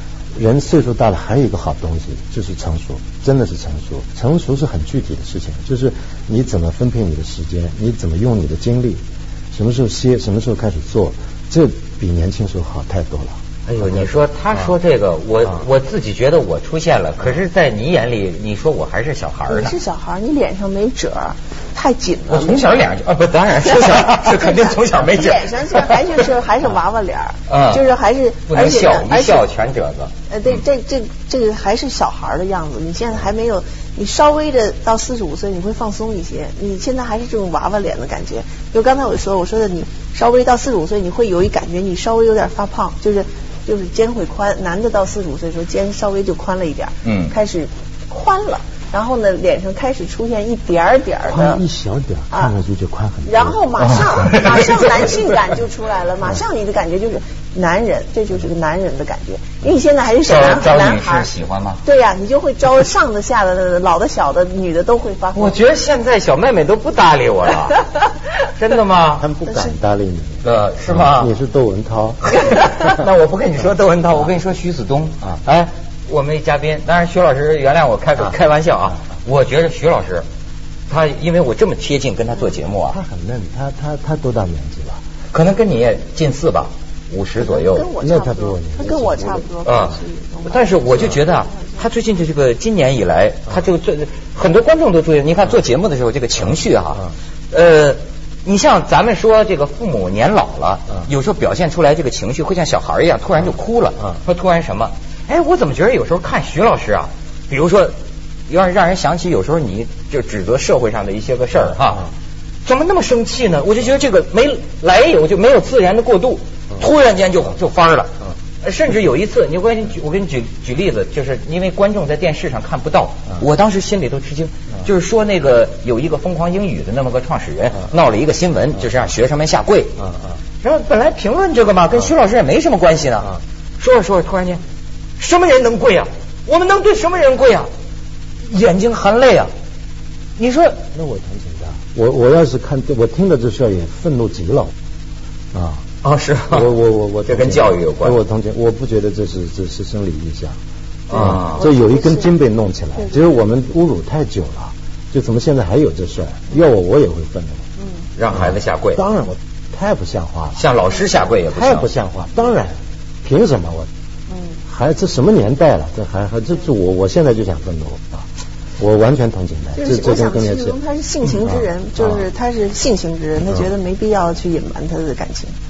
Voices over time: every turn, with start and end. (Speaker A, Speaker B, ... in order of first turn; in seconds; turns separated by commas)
Speaker A: 0.3-13.4, Speaker B: 13.7-19.8, Speaker C: 19.5-22.6, Speaker B: 22.3-26.2, Speaker C: 23.7-29.5, Speaker B: 27.5-27.8, Speaker B: 28.5-30.1, Speaker C: 30.3-51.6, Speaker B: 47.0-47.3, Speaker A: 51.3-53.6, Speaker C: 53.2-61.3, Speaker B: 54.0-55.1, Speaker B: 60.3-61.8, Speaker C: 61.8-65.5, Speaker B: 65.3-67.8, Speaker B: 68.5-69.3, Speaker A: 69.2-72.2, Speaker B: 70.4-71.3, Speaker B: 72.2-80.2, Speaker B: 80.9-83.0, Speaker A: 82.9-85.0, Speaker B: 85.3-87.9, Speaker C: 87.4-91.8, Speaker A: 88.0-89.5, Speaker B: 89.7-107.9, Speaker B: 108.5-112.1, Speaker B: 112.7-130.0, Speaker B: 130.6-134.6, Speaker B: 135.2-137.7, Speaker B: 138.5-139.5, Speaker B: 140.4-140.8, Speaker A: 140.9-144.7, Speaker A: 145.5-145.8, Speaker B: 146.0-146.7, Speaker A: 146.5-150.6, Speaker B: 147.3-148.2, Speaker B: 151.1-151.6, Speaker A: 151.1-157.7, Speaker C: 151.6-152.3, Speaker B: 158.2-159.0, Speaker A: 159.0-160.6, Speaker B: 160.6-161.9, Speaker A: 161.5-163.9, Speaker A: 164.7-168.3, Speaker A: 168.8-170.8, Speaker C: 169.8-175.5